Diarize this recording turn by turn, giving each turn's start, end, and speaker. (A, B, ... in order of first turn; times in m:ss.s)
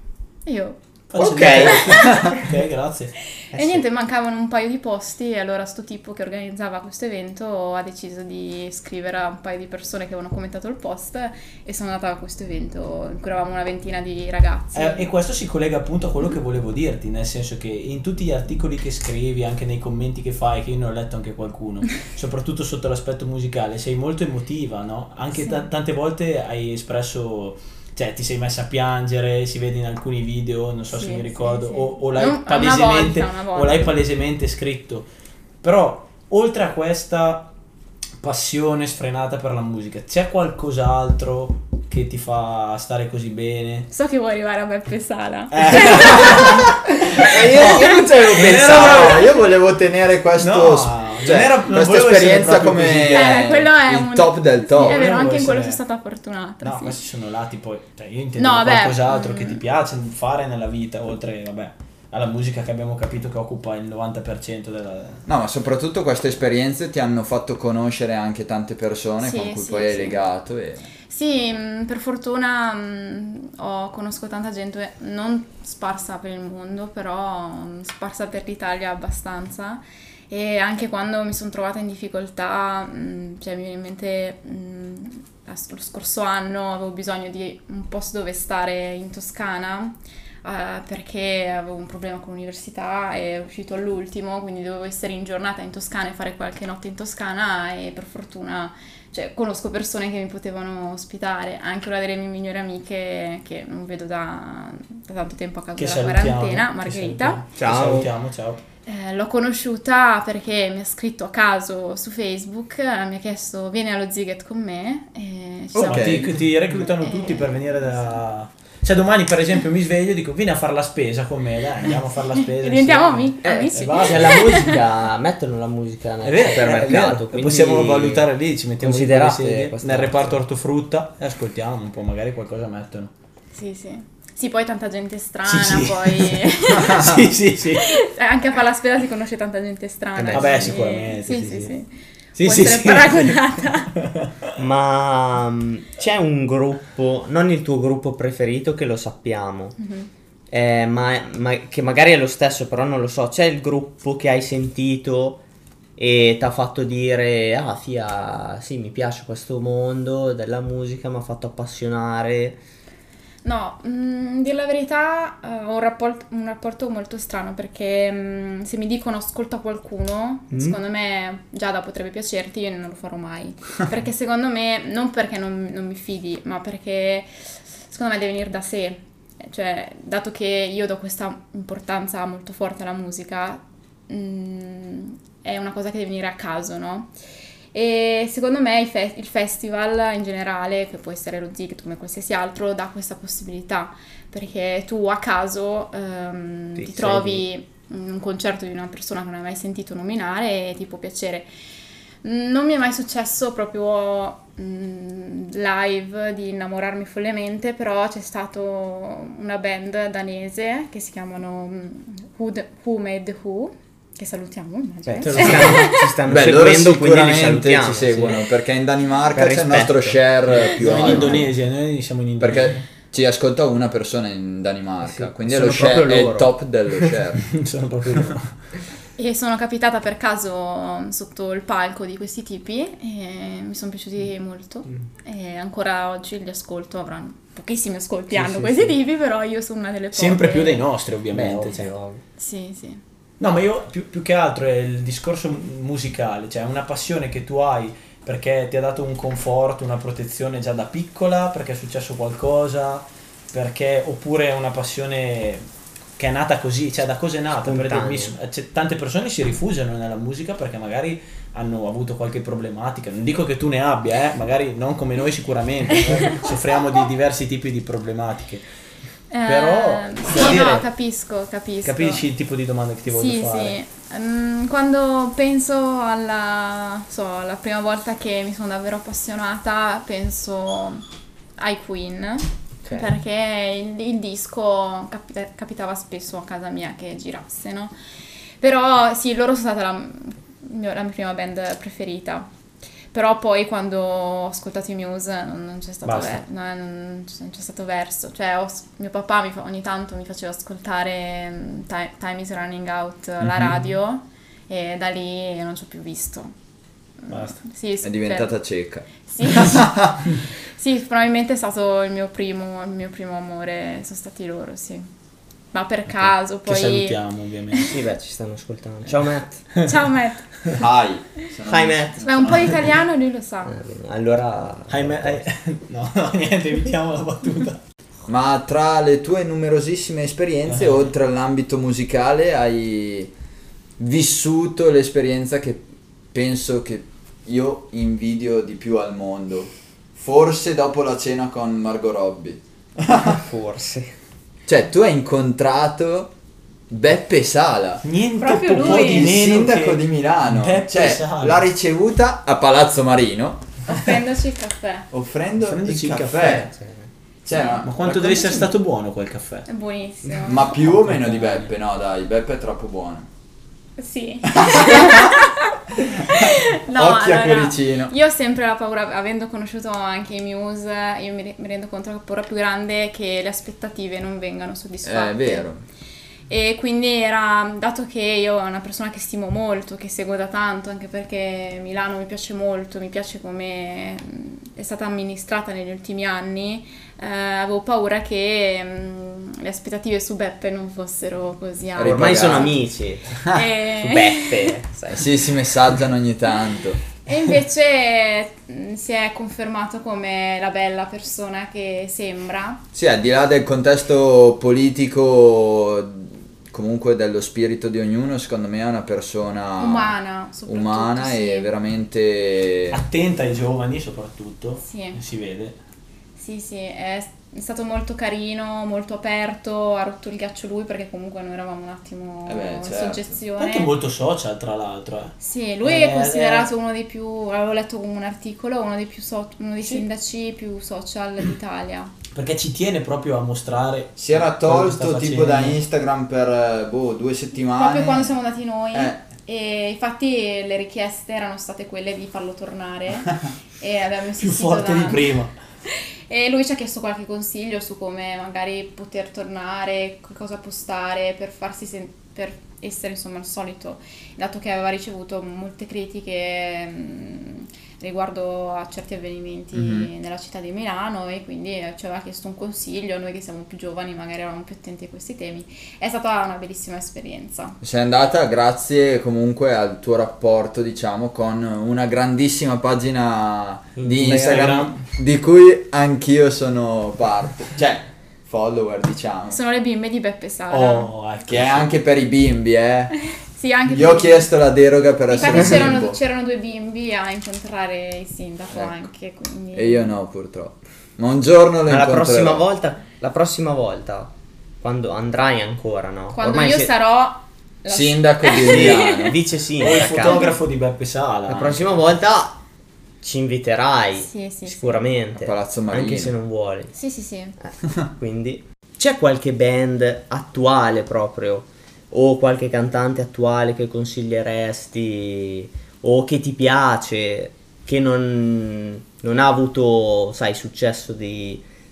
0:00.4-0:00.8 A
0:01.1-0:03.2 B
0:01.2-0:02.1 C
0:01.4-0:02.4 A
0:03.4-0:15.1 A
0:03.5-0:03.8 C
0:14.7-0:35.1 B
0:25.4-0:25.7 A
0:30.9-0:33.9 A
0:35.6-0:37.5 B
0:38.2-0:43.9 B
0:43.9-0:46.7 A
0:45.5-0:49.3 B
0:47.2-0:49.3 C
0:47.5-0:55.0 D
0:50.4-0:53.4 B
0:53.1-0:57.0 A
0:54.8-0:55.8 B
0:56.6-1:05.2 B
0:58.4-0:59.6 A
1:05.3-1:10.9 D
1:09.2-1:10.2 A
1:11.1-1:47.4 A
1:45.8-1:48.6 B
1:47.6-1:48.1 C
1:48.9-1:58.2 A
1:55.7-1:56.3 D
1:55.8-2:04.7 B
2:02.4-2:04.8 A
2:03.4-2:08.3 C
2:06.2-2:13.1 B
2:08.8-2:10.4 C
2:13.5-2:17.2 A
2:15.4-2:18.0 B
2:17.8-2:23.9 A
2:20.2-2:20.7 C
2:20.3-2:21.8 B
2:22.4-2:23.4 B
2:24.0-2:24.5 B
2:24.6-2:29.8 C
2:29.8-2:30.1 A
2:30.5-2:35.4 C
2:36.0-2:42.6 C
2:43.4-2:57.3 A
2:50.5-2:50.8 C
2:57.9-3:07.1 A
3:07.7-3:21.5 A
3:16.8-3:17.4 C
3:22.2-3:36.1 A
3:35.0-3:38.5 C
3:35.2-3:35.9 B
3:36.3-3:41.5 D
3:39.3-3:40.2 C
3:40.5-3:42.8 B
3:40.8-3:41.5 C
3:42.4-3:47.5 D
3:45.0-3:46.5 C
3:47.4-3:48.6 B
3:49.2-4:00.9 A
3:58.4-3:58.8 B
4:00.1-4:01.9 B
4:01.3-4:02.2 C
4:02.4-4:03.0 A
4:03.4-4:15.6 B
4:16.2-4:28.6 B
4:17.5-4:18.4 C
4:26.1-4:26.5 A
4:29.3-4:32.3 A
4:29.5-4:30.9 B
4:31.8-4:33.8 B
4:33.1-4:41.0 A
4:41.6-4:47.9 A
4:42.8-4:43.1 C
4:48.6-4:52.5 A
4:53.1-5:06.5 A
4:56.0-4:56.4 B
5:07.2-5:08.5 A
5:07.3-5:07.6 B
5:08.0-5:10.2 D
5:09.2-5:09.9 A
5:10.7-5:15.1 A
5:15.7-5:17.2 A
5:16.7-5:18.0 B
5:17.8-5:19.6 C
5:19.8-5:20.8 A
5:20.7-5:23.0 D
5:21.7-5:22.2 C
5:22.2-5:23.8 A
5:23.6-5:25.5 C
5:24.9-5:27.8 B
5:28.3-5:33.3 D
5:30.7-5:31.1 B
5:34.0-5:43.4 D
5:43.2-5:44.2 C
5:44.7-5:46.3 D
5:46.9-5:48.0 D
5:48.0-5:51.7 B
5:48.4-5:49.4 A
5:48.8-5:53.6 D
5:53.9-5:55.1 A
5:55.1-5:56.7 D
5:55.6-5:56.7 B
5:56.8-5:57.1 C
5:57.4-5:58.6 D
5:57.8-5:59.7 B
5:59.7-6:00.8 A
6:00.4-6:03.3 D
6:00.8-6:01.7 B
6:04.0-6:15.7 A
6:04.5-6:05.4 D
6:06.0-6:08.1 D
6:15.0-6:15.8 D
6:16.5-6:32.8 A
6:32.0-6:32.8 D
6:32.0-6:35.2 C
6:33.4-6:34.8 A
6:35.1-6:37.0 D
6:37.2-6:42.8 A
6:42.9-6:50.2 D
6:49.8-6:51.7 A
6:50.7-6:53.0 D
6:52.9-6:55.8 B
6:54.8-6:55.2 A
6:56.4-7:03.9 A
7:02.5-7:03.4 D
7:03.6-7:06.7 B
7:05.4-7:12.1 A
7:12.3-7:15.8 B
7:14.2-7:18.4 D
7:17.8-7:25.3 A
7:18.9-7:19.2 D
7:24.4-7:25.5 B
7:25.9-7:47.8 A
7:39.7-7:40.1 D
7:47.8-7:59.6 D
7:54.1-7:55.0 B
7:59.5-8:01.1 A
8:00.7-8:01.9 B
8:01.5-8:03.1 D
8:03.2-8:04.5 A
8:03.9-8:06.2 D
8:05.3-8:10.1 A
8:09.7-8:12.6 D
8:11.9-8:16.9 C
8:16.3-8:19.4 A
8:17.9-8:19.4 D
8:18.6-8:20.5 C
8:19.8-8:22.0 B
8:20.2-8:20.6 A
8:21.5-8:22.6 C
8:23.2-8:26.9 C
8:24.2-8:25.1 A
8:25.4-8:26.3 D
8:26.9-8:27.6 A
8:27.6-8:41.6 C